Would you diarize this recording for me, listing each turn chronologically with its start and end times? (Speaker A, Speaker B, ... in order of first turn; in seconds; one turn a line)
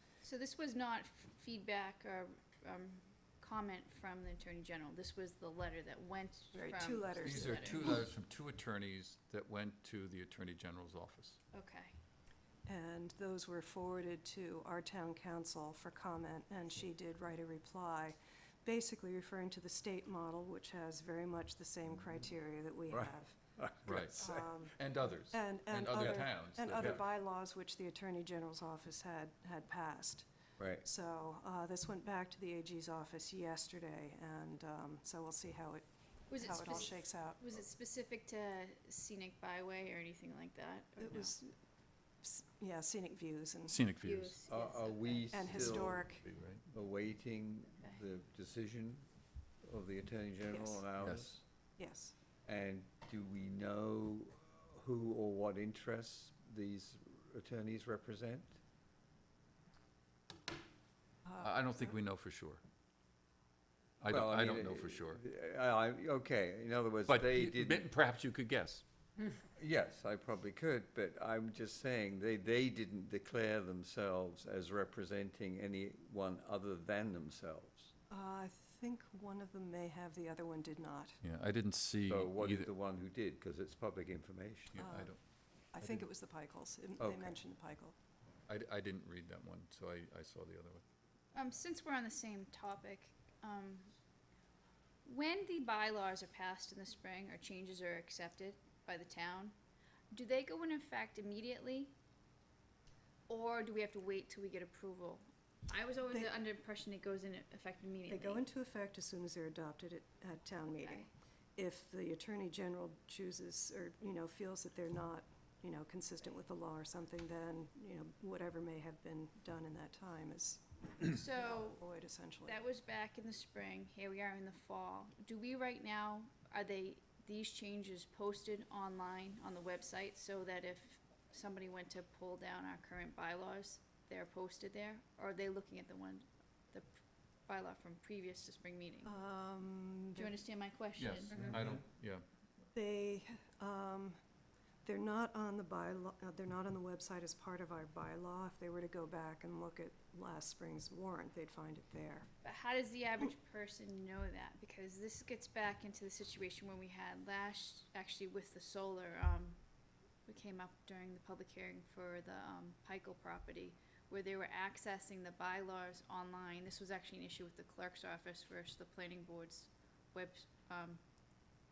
Speaker A: 0.2-8.0
Speaker B: 6.5-8.0
Speaker C: 7.2-11.4
Speaker A: 11.5-11.9
Speaker B: 12.7-23.4
Speaker D: 22.9-24.2
Speaker C: 23.8-27.0
Speaker B: 23.9-24.7
Speaker B: 25.3-30.3
Speaker D: 30.6-30.8
Speaker B: 30.8-35.8
Speaker A: 36.3-41.3
Speaker B: 36.3-37.4
Speaker B: 41.0-41.5
Speaker B: 42.2-43.8
Speaker C: 43.7-44.4
Speaker A: 44.0-45.7
Speaker D: 44.5-46.0
Speaker B: 45.3-46.2
Speaker C: 45.5-46.6
Speaker D: 46.7-49.0
Speaker D: 49.6-51.4
Speaker C: 51.0-51.3
Speaker B: 51.8-52.1
Speaker D: 52.4-58.6
Speaker C: 61.4-62.6
Speaker C: 64.0-65.2
Speaker D: 64.1-67.9
Speaker C: 67.1-68.8
Speaker D: 69.5-77.9
Speaker B: 78.1-81.2
Speaker C: 81.2-82.7
Speaker D: 82.1-84.7
Speaker C: 84.7-85.2
Speaker B: 84.7-85.1
Speaker B: 85.7-88.0
Speaker C: 85.8-86.0
Speaker D: 87.0-87.4
Speaker C: 88.5-90.8
Speaker A: 91.3-93.9
Speaker A: 95.0-99.5
Speaker A: 100.1-101.9
Speaker A: 103.3-108.5
Speaker B: 108.1-120.6
Speaker A: 121.0-121.8
Speaker B: 121.2-122.6
Speaker A: 122.4-136.9
Speaker A: 137.5-139.1
Speaker B: 139.0-140.3
Speaker A: 140.2-141.5
Speaker C: 141.0-142.2
Speaker B: 142.7-144.2
Speaker B: 144.8-152.3
Speaker A: 152.4-159.6
Speaker A: 160.2-171.0